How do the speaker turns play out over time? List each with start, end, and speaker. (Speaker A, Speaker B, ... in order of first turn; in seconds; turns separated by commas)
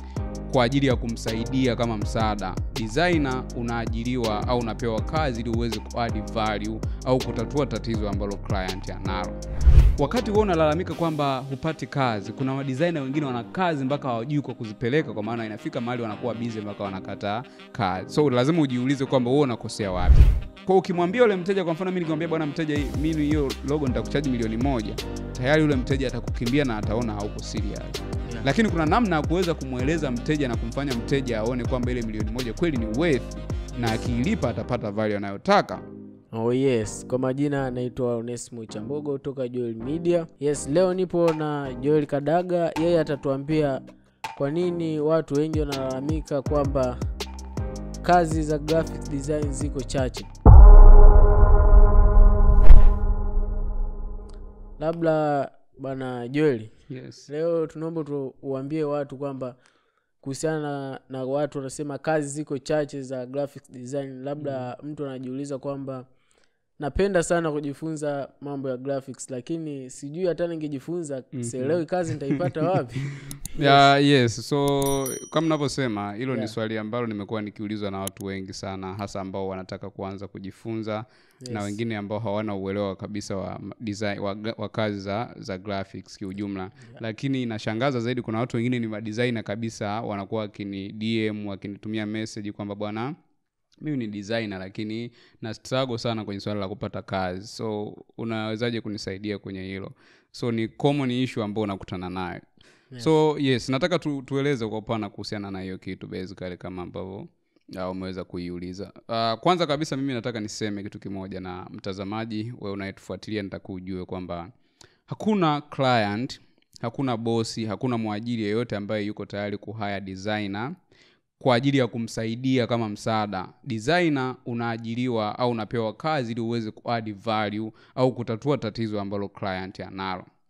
Speaker A: 0.5-9.4, Speaker A: 9.9-35.8, Speaker B: 36.3-43.8, Speaker B: 44.3-47.0, Speaker B: 48.0-50.3, Speaker B: 54.8-56.7, Speaker A: 56.9-57.3, Speaker B: 57.3-59.5, Speaker B: 60.2-66.0, Speaker A: 64.4-64.7, Speaker B: 66.8-73.8, Speaker A: 71.3-71.8, Speaker A: 73.5-93.1, Speaker B: 76.3-76.5, Speaker B: 81.4-81.7, Speaker A: 93.8-102.4, Speaker A: 103.0-114.5, Speaker A: 115.1-120.7, Speaker A: 121.4-130.3